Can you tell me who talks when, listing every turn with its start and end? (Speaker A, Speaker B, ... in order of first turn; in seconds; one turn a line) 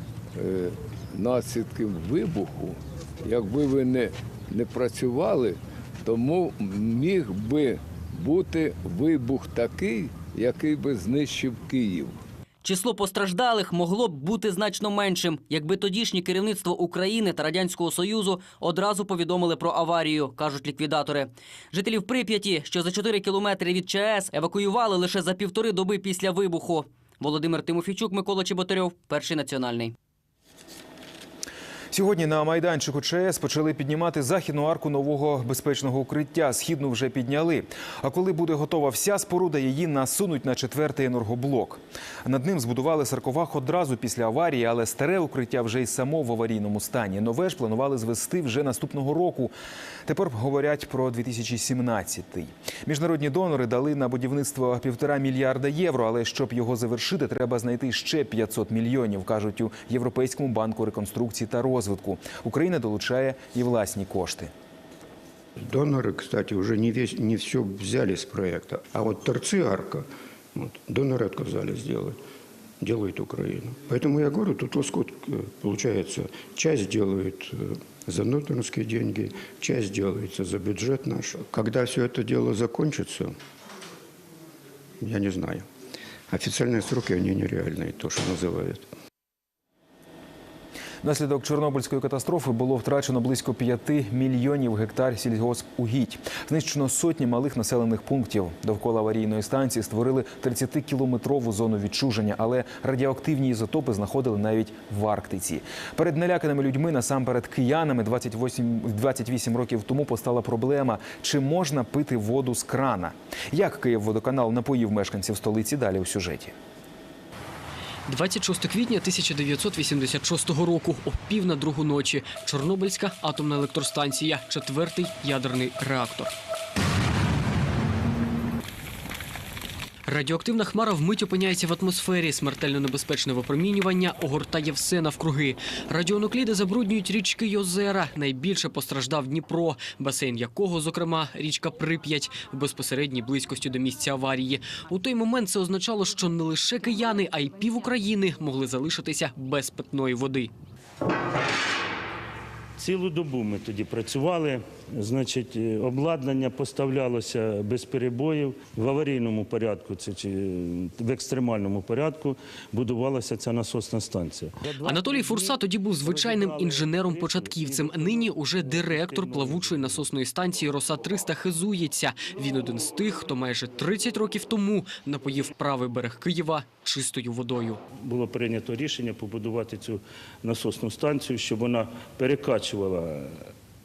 Speaker A: 0.4-12.2
Speaker B: 12.6-29.9
Speaker C: 31.9-49.5
Speaker C: 50.0-64.5
Speaker D: 65.6-72.2
Speaker D: 72.8-83.3
Speaker D: 85.0-85.7
Speaker D: 86.3-88.9
Speaker C: 91.0-116.5
Speaker E: 118.1-126.3
Speaker E: 130.1-150.5
Speaker F: 152.8-170.0
Speaker E: 164.8-177.8
Speaker F: 177.9-183.5